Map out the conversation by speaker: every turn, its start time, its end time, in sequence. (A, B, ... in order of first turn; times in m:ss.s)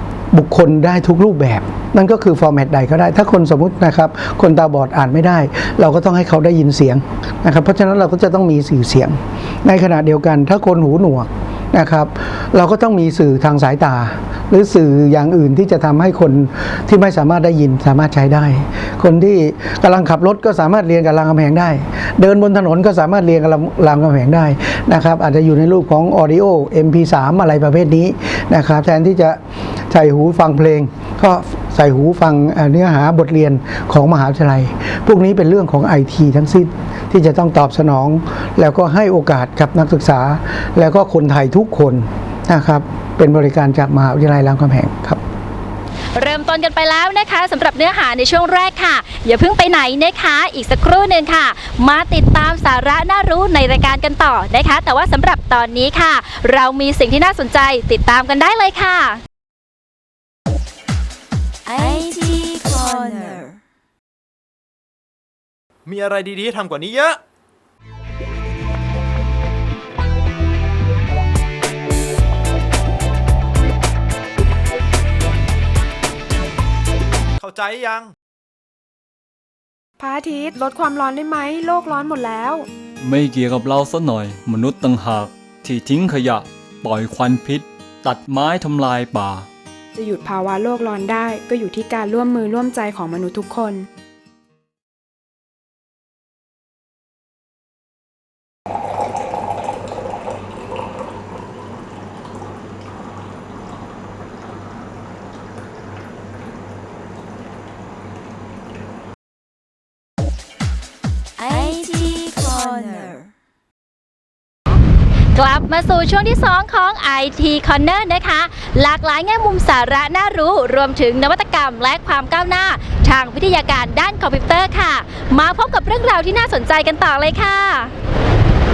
0:00.3-0:45.2 A
0:46.1-0:59.2 B
1:01.7-1:03.4 C
1:05.8-1:07.2 D
1:17.4-1:18.1 D
1:20.0-1:22.6 E
1:23.0-1:29.5 F
1:29.9-1:33.9 E
1:51.4-1:53.2 C
1:55.3-2:07.9 B